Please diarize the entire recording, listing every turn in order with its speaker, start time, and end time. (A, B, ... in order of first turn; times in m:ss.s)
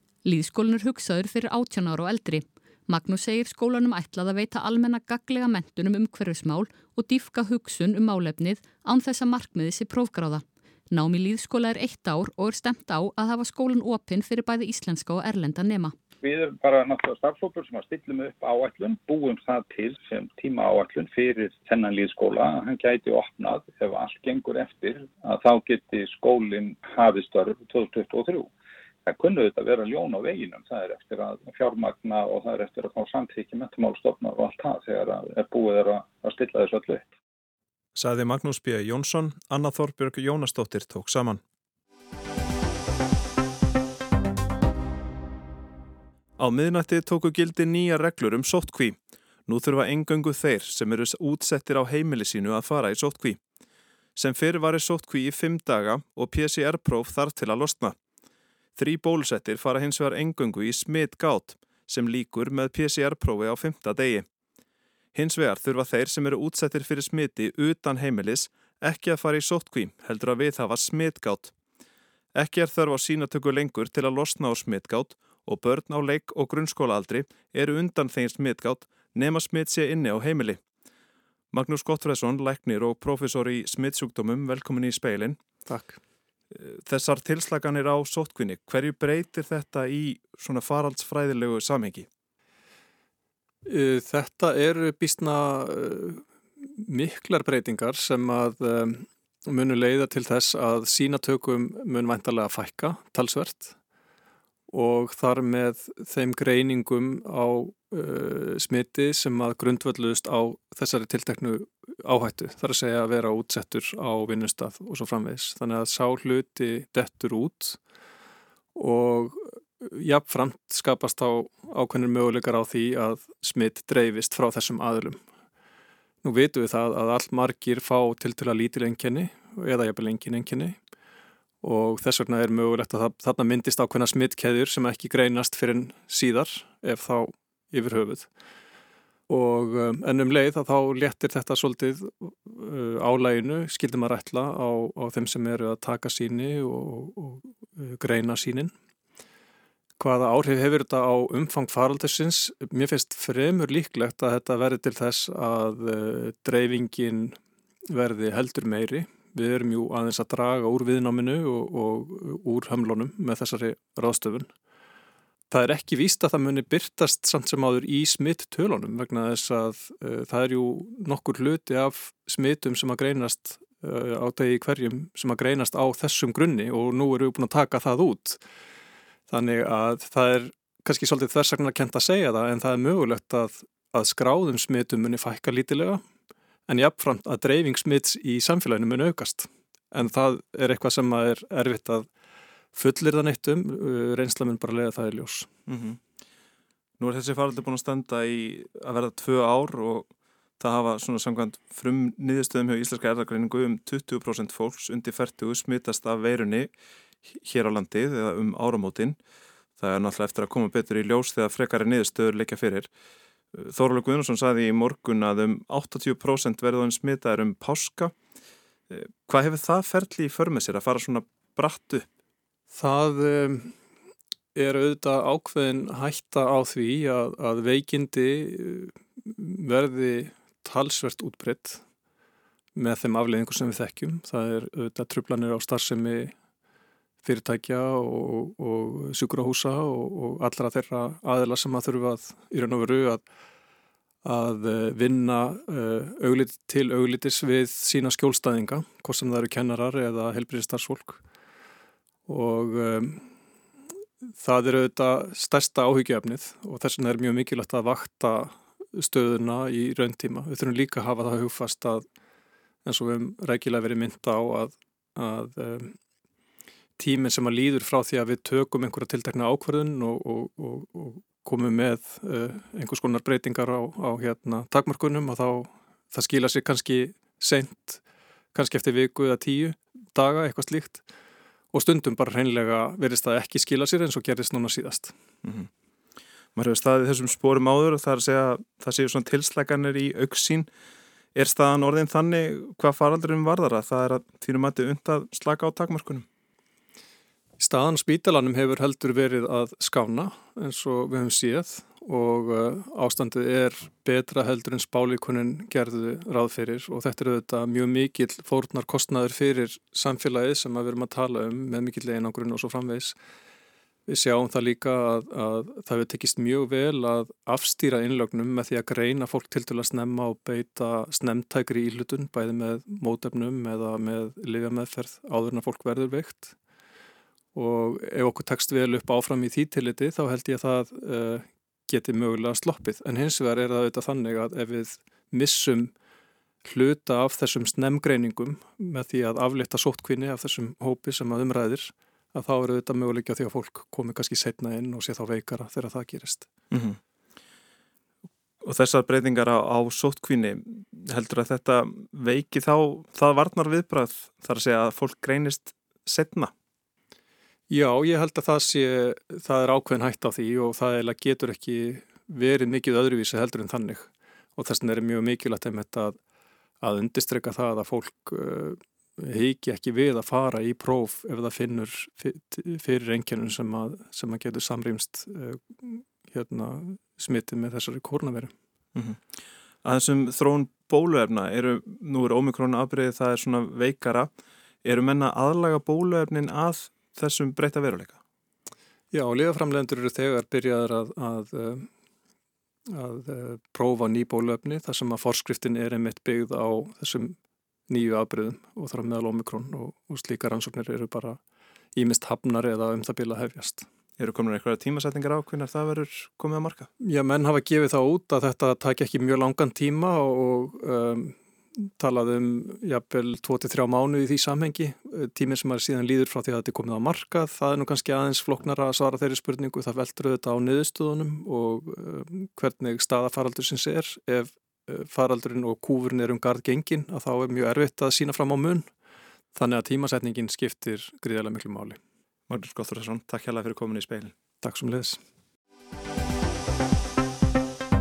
0:00.2-0:15.9 A
0:16.2-0:28.5 B
0:29.0-0:37.1 B
0:37.9-0:41.4 C
0:46.4-0:53.4 C
0:54.1-0:58.0 C
0:58.8-1:04.3 C
1:05.1-1:11.5 C
1:12.4-1:20.6 C
1:21.5-1:25.4 C
1:25.7-1:26.0 D
1:26.5-1:32.1 C
1:33.6-1:36.2 D
1:36.8-1:43.8 D
1:44.7-1:57.8 D
1:58.8-2:05.2 D
2:06.2-2:10.8 D
2:11.6-2:18.3 D
2:19.3-2:28.7 D
2:30.0-2:37.4 D
2:37.9-2:44.5 D
2:45.5-2:58.4 D
2:59.3-3:06.0 D
3:06.7-3:12.1 D
3:12.7-3:15.5 D
3:15.7-3:16.0 C
3:17.0-3:26.7 C
3:27.3-3:29.2 C
3:29.8-3:32.9 C
3:33.5-3:38.1 C
3:38.9-3:42.1 C
3:42.7-3:43.7 D
3:44.5-3:51.8 D
3:52.8-3:56.3 D
3:57.2-4:03.2 D
4:04.2-4:11.2 D
4:12.3-4:13.2 D
4:14.4-4:22.0 D
4:22.8-4:25.9 D
4:27.0-4:38.0 D
4:38.5-4:41.0 D
4:41.7-4:45.1 D
4:45.4-4:45.7 C
4:46.5-4:50.7 C
4:51.4-4:56.2 C
4:57.6-5:13.2 D
5:14.1-5:26.5 D
5:27.5-5:35.9 D
5:36.6-5:46.5 D
5:46.7-5:47.0 C
5:48.6-5:56.5 C
5:57.7-6:06.2 D
6:06.8-6:18.5 D
6:18.9-6:19.2 C
6:19.8-6:24.3 C
6:24.8-6:28.2 C
6:29.1-6:31.9 D
6:32.9-6:37.4 D
6:37.9-6:41.4 D
6:42.0-6:43.9 D
6:44.2-6:46.9 C
6:47.0-6:51.4 D
6:52.0-7:08.9 D
7:09.5-7:12.0 D
7:12.5-7:14.4 C
7:14.6-7:15.2 D